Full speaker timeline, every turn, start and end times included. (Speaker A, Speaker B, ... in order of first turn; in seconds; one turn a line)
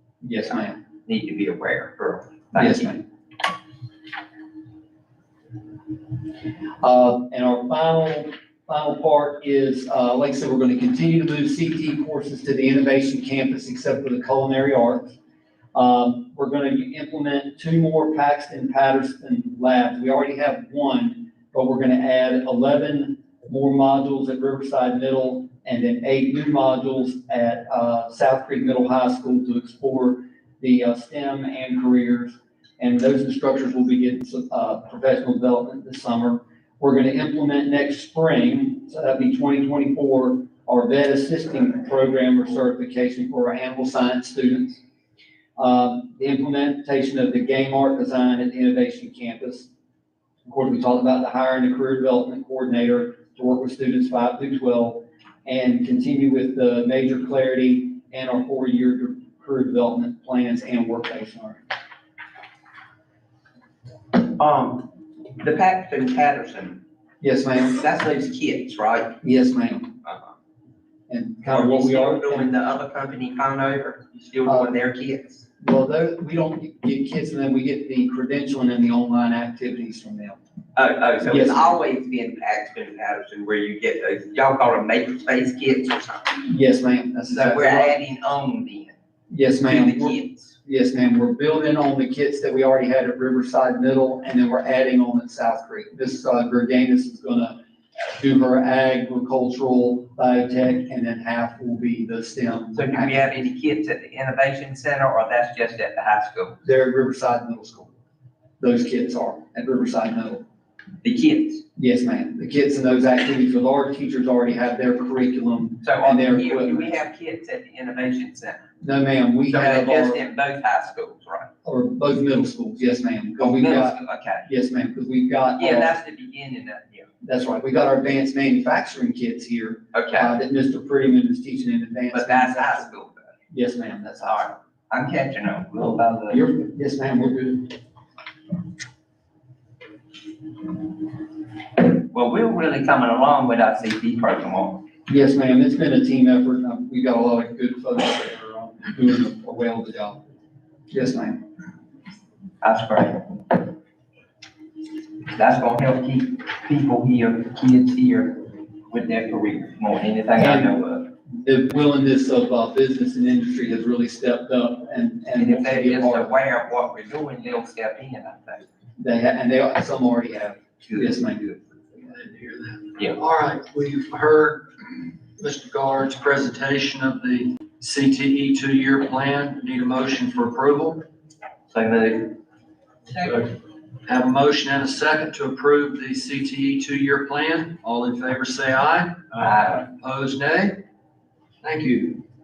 Speaker A: 0.2-0.8
Speaker B: 1.1-3.0
Speaker A: 2.5-3.0
Speaker A: 6.8-15.1
Speaker A: 15.7-44.8
Speaker A: 45.6-49.7
Speaker A: 50.5-61.6
Speaker B: 64.2-66.8
Speaker A: 67.2-67.8
Speaker B: 67.7-69.2
Speaker A: 69.2-70.0
Speaker A: 71.1-72.5
Speaker B: 71.4-75.4
Speaker A: 74.5-74.8
Speaker A: 75.6-80.4
Speaker B: 80.8-86.4
Speaker A: 81.2-81.8
Speaker A: 86.4-88.0
Speaker B: 87.3-89.0
Speaker A: 89.3-97.5
Speaker B: 89.7-90.5
Speaker A: 98.1-103.4
Speaker B: 102.7-106.6
Speaker A: 106.6-107.9
Speaker A: 108.6-110.4
Speaker B: 111.0-111.6
Speaker A: 111.8-116.9
Speaker B: 115.8-118.6
Speaker A: 118.8-120.2
Speaker B: 119.5-121.5
Speaker A: 121.6-125.9
Speaker B: 123.4-124.5
Speaker B: 125.6-127.1
Speaker A: 127.2-132.9
Speaker B: 129.9-130.3
Speaker B: 132.1-133.3
Speaker A: 133.5-134.6
Speaker B: 134.2-136.4
Speaker A: 135.8-137.7
Speaker B: 141.8-144.8
Speaker A: 145.1-150.2
Speaker A: 150.9-151.4
Speaker B: 152.6-153.7
Speaker B: 155.3-161.1
Speaker A: 160.4-160.7
Speaker A: 161.3-166.4
Speaker B: 165.3-168.7
Speaker A: 169.0-171.7
Speaker C: 172.0-174.7
Speaker C: 175.4-181.0
Speaker B: 181.7-182.3
Speaker C: 184.1-190.8
Speaker B: 189.4-189.9
Speaker C: 191.6-192.2